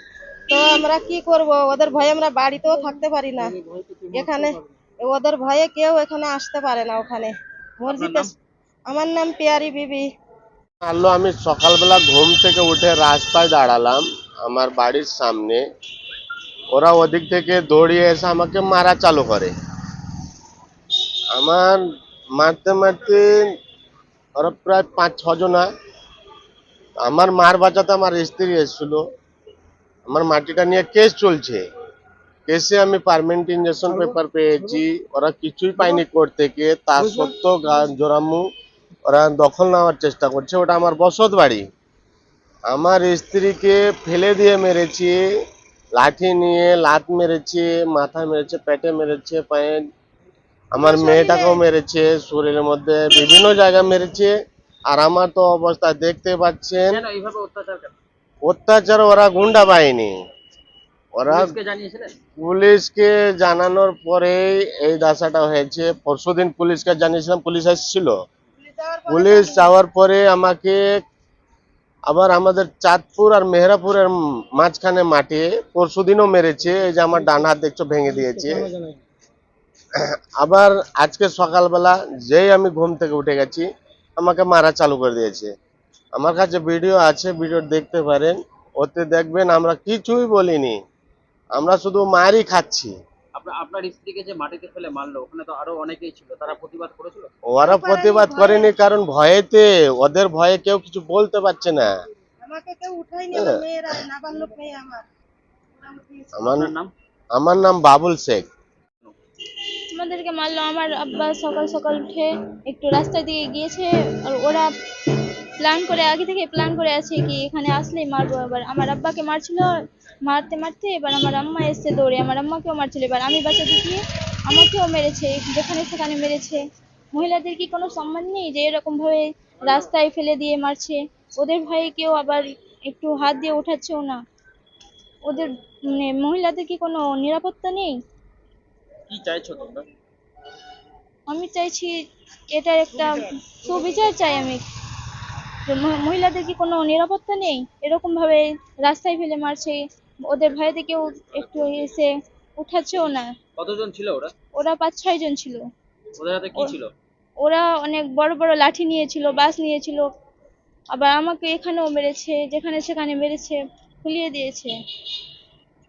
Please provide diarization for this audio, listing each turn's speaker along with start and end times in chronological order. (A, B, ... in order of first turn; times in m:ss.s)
0:00.5-0:03.6 A
0:03.4-0:04.6 B
0:04.1-0:08.3 A
0:07.9-0:08.3 B
0:08.9-0:10.1 A
0:10.8-0:15.6 C
0:16.7-0:19.5 C
0:21.3-0:21.8 C
0:22.4-0:23.5 C
0:24.4-0:25.7 C
0:27.0-0:29.0 C
0:30.1-0:31.6 C
0:32.5-0:38.5 C
0:39.1-0:41.6 C
0:42.7-0:45.2 C
0:46.0-0:49.8 C
0:50.7-0:54.3 C
0:50.8-0:51.6 A
0:54.9-0:57.0 C
0:56.9-0:57.9 B
0:58.4-1:00.2 C
1:01.1-1:01.6 C
1:01.3-1:02.2 B
1:02.4-1:08.2 C
1:08.6-1:09.8 A
1:09.1-1:11.0 C
1:12.1-1:18.8 C
1:20.0-1:25.5 C
1:26.2-1:30.8 C
1:31.6-1:32.9 C
1:33.4-1:37.3 B
1:37.5-1:41.9 C
1:37.6-1:38.7 A
1:42.4-1:45.0 A
1:43.3-1:43.6 C
1:45.8-1:46.3 A
1:46.4-1:46.7 C
1:46.4-1:46.9 B
1:47.4-1:48.5 C
1:49.9-1:54.7 D
1:55.6-2:06.6 D
2:07.1-2:14.2 D
2:15.3-2:18.0 D
2:19.1-2:19.9 B
2:21.3-2:21.9 D
2:22.5-2:24.6 D
2:25.7-2:33.3 D
2:33.6-2:34.3 B
2:34.6-2:35.7 D
2:36.2-2:36.9 B
2:37.4-2:40.1 D
2:40.9-2:44.7 D